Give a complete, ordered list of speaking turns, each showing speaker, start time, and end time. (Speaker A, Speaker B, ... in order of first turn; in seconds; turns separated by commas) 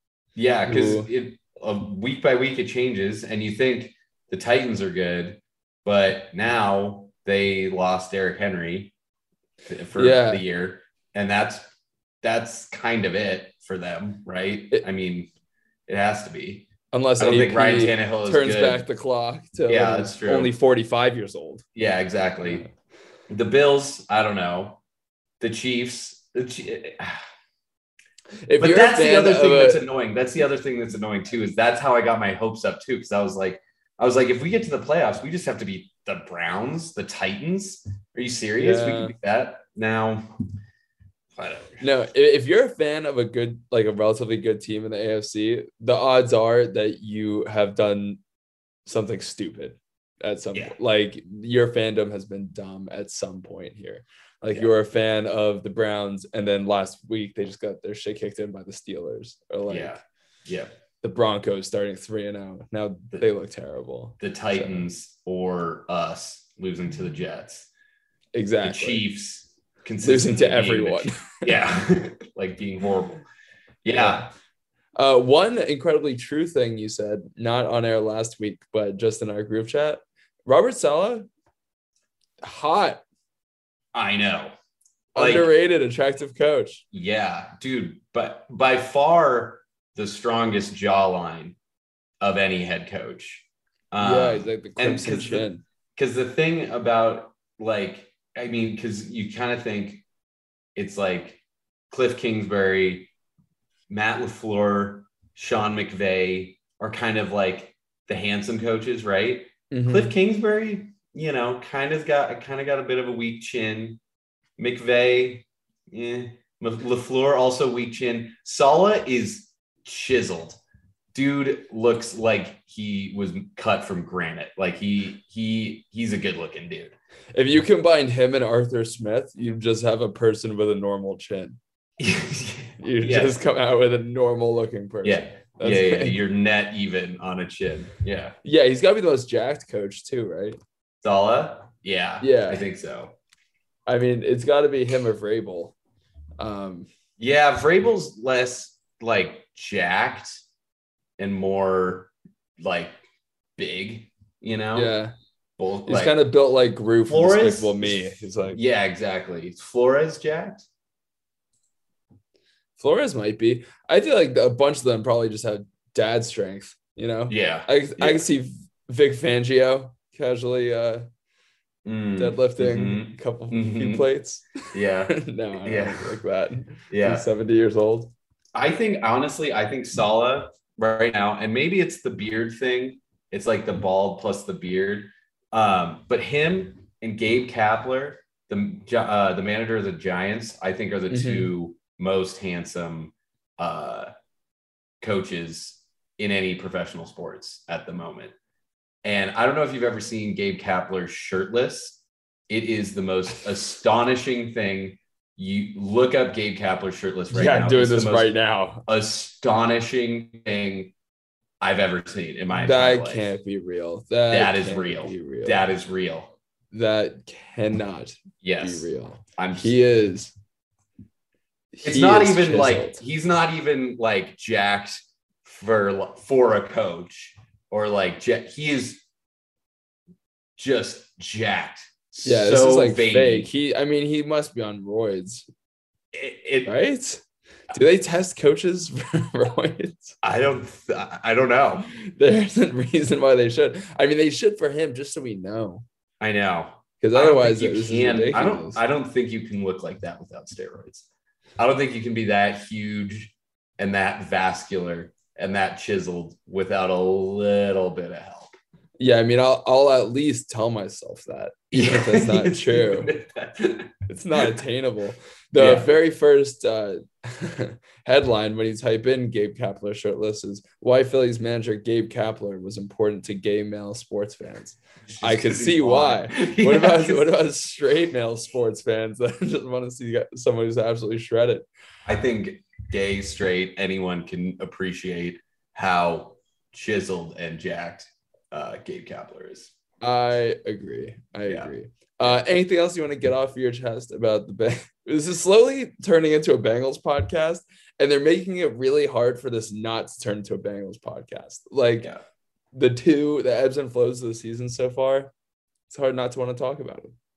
Speaker A: 0.3-8.9, Speaker B: 0.7-1.1, Speaker A: 9.7-11.7, Speaker B: 9.9-10.4, Speaker A: 12.2-15.3, Speaker A: 15.9-18.9, Speaker B: 16.9-21.6, Speaker A: 19.7-20.5, Speaker A: 21.7-22.6, Speaker A: 23.3-24.8, Speaker A: 25.4-27.3, Speaker B: 28.5-29.8, Speaker A: 28.6-40.4, Speaker B: 38.6-39.1, Speaker A: 41.3-41.8, Speaker B: 41.8-48.2, Speaker B: 48.9-60.0, Speaker A: 59.7-60.7, Speaker B: 61.0-64.9, Speaker A: 64.2-67.7, Speaker B: 68.3-69.0, Speaker A: 68.6-73.2, Speaker B: 70.0-71.7, Speaker A: 73.8-74.2, Speaker B: 73.9-74.3, Speaker B: 75.0-81.3, Speaker B: 82.4-83.0, Speaker A: 83.9-84.5, Speaker A: 85.1-85.5, Speaker B: 85.1-86.8, Speaker A: 86.9-91.5, Speaker A: 92.2-100.0, Speaker B: 94.0-95.6, Speaker A: 100.7-103.1, Speaker A: 103.9-114.0, Speaker B: 109.7-110.1, Speaker A: 114.6-120.6, Speaker A: 121.1-126.9, Speaker B: 127.3-131.6, Speaker A: 132.0-133.4, Speaker B: 132.8-136.2, Speaker A: 135.0-138.3, Speaker B: 138.4-140.6, Speaker A: 141.0-143.1, Speaker B: 142.2-142.6, Speaker B: 143.9-145.7, Speaker B: 146.4-146.9, Speaker A: 147.2-150.4, Speaker A: 151.2-153.0, Speaker A: 153.6-154.9, Speaker B: 154.7-155.1, Speaker A: 155.6-156.2, Speaker B: 155.9-158.6, Speaker A: 157.1-160.7, Speaker B: 162.8-171.0, Speaker A: 167.3-168.2, Speaker A: 171.8-174.1, Speaker B: 172.2-178.1, Speaker A: 174.7-176.2, Speaker A: 176.9-177.2, Speaker A: 178.5-194.1, Speaker B: 191.1-191.5, Speaker A: 195.0-198.3, Speaker A: 199.0-210.9, Speaker B: 207.3-208.8, Speaker A: 211.6-213.3, Speaker B: 212.5-215.7, Speaker A: 214.3-216.3, Speaker B: 216.7-220.3, Speaker A: 218.4-219.8, Speaker B: 221.7-223.0, Speaker A: 221.8-229.0, Speaker A: 230.6-233.5, Speaker B: 232.2-235.4, Speaker A: 236.1-236.7, Speaker B: 236.7-240.2, Speaker A: 240.2-241.9, Speaker B: 242.0-245.8, Speaker A: 246.2-251.1, Speaker B: 247.0-248.8, Speaker A: 251.6-258.6, Speaker B: 259.0-263.1, Speaker A: 261.7-264.5, Speaker B: 264.1-281.6, Speaker A: 265.5-266.0, Speaker A: 275.1-277.3, Speaker A: 282.1-289.7, Speaker B: 290.0-302.1, Speaker A: 291.4-292.4, Speaker B: 302.7-305.3, Speaker B: 305.9-307.1